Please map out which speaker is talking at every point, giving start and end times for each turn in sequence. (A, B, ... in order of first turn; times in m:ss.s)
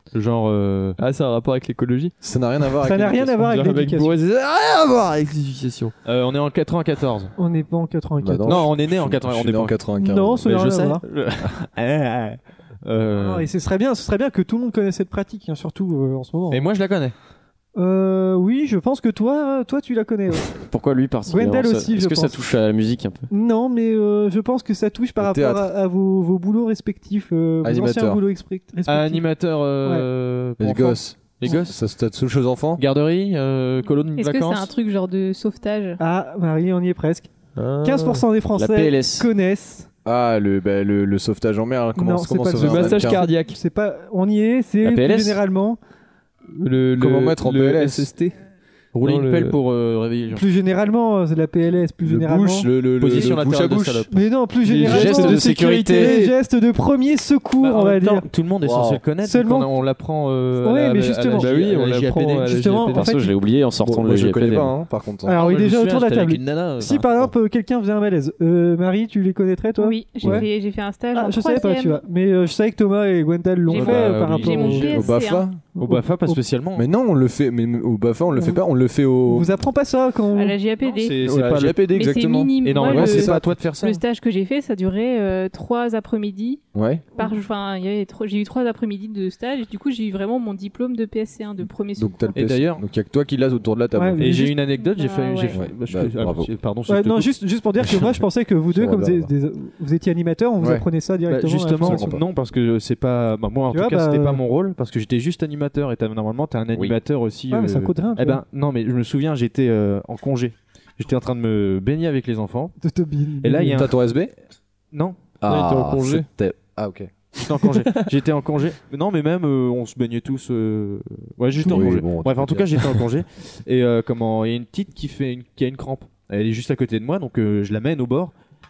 0:00.1-0:01.0 A
0:01.0-0:02.1 B
0:02.2-0:03.5 C
0:02.8-0:04.1 D
0:03.4-0:05.9 B
0:06.0-0:07.3 A
0:07.4-0:08.7 D
0:08.2-0:10.5 C
0:08.4-0:09.8 A
0:09.9-0:11.0 D
0:10.4-0:13.5 A
0:13.2-0:16.7 D
0:16.5-0:17.1 A
0:17.7-0:20.6 D
0:20.6-0:23.3 E
0:21.2-0:22.5 D
0:23.3-0:29.3 D
0:25.2-0:25.7 C
0:27.6-0:28.2 C
0:28.9-0:31.8 A
0:30.6-0:32.8 C
0:32.8-0:34.7 A
0:34.2-0:36.0 F
0:36.0-0:37.3 D
0:37.6-0:38.2 B
0:37.8-0:39.9 D
0:38.5-0:39.3 E
0:40.0-0:43.2 C
0:42.0-0:45.8 D
0:42.5-0:43.6 B
0:44.8-0:45.4 E
0:46.5-0:48.4 B
0:47.0-0:48.1 C
0:48.9-0:50.4 A
0:49.0-0:49.6 B
0:50.3-0:52.7 D
0:52.0-0:54.1 C
0:53.0-0:54.2 A
0:54.1-0:58.3 D
0:54.7-0:55.1 B
0:54.8-0:56.2 E
0:54.8-0:55.4 C
0:54.9-0:56.3 A
0:57.6-1:02.8 A
0:58.6-0:59.0 C
0:59.2-0:59.7 D
1:00.6-1:01.5 D
1:01.4-1:03.2 B
1:02.4-1:03.3 D
1:02.9-1:04.7 E
1:03.8-1:05.4 C
1:05.2-1:10.5 D
1:05.3-1:07.3 A
1:09.8-1:12.0 F
1:11.1-1:15.0 D
1:13.7-1:15.5 F
1:13.7-1:15.1 A
1:14.9-1:15.6 C
1:15.8-1:16.4 D
1:15.8-1:16.8 A
1:16.8-1:19.5 C
1:19.2-1:20.6 D
1:20.3-1:21.2 F
1:20.8-1:21.9 A
1:21.2-1:23.6 C
1:21.9-1:26.6 F
1:22.6-1:24.0 A
1:26.7-1:27.0 C
1:27.2-1:32.4 F
1:32.0-1:34.4 C
1:32.3-1:32.8 A
1:33.9-1:34.6 D
1:34.2-1:37.3 A
1:34.8-1:35.6 F
1:35.5-1:36.5 C
1:36.9-1:42.2 D
1:38.7-1:39.3 C
1:40.6-1:40.8 C
1:41.3-1:52.7 A
1:41.8-1:42.2 C
1:43.7-1:44.4 D
1:47.5-1:48.4 D
1:52.8-1:53.9 D
1:53.4-1:54.0 A
1:53.7-1:54.3 C
1:54.9-1:55.2 A
1:55.4-1:57.4 C
1:55.5-1:56.3 B
1:57.4-2:08.3 A
2:01.6-2:03.1 C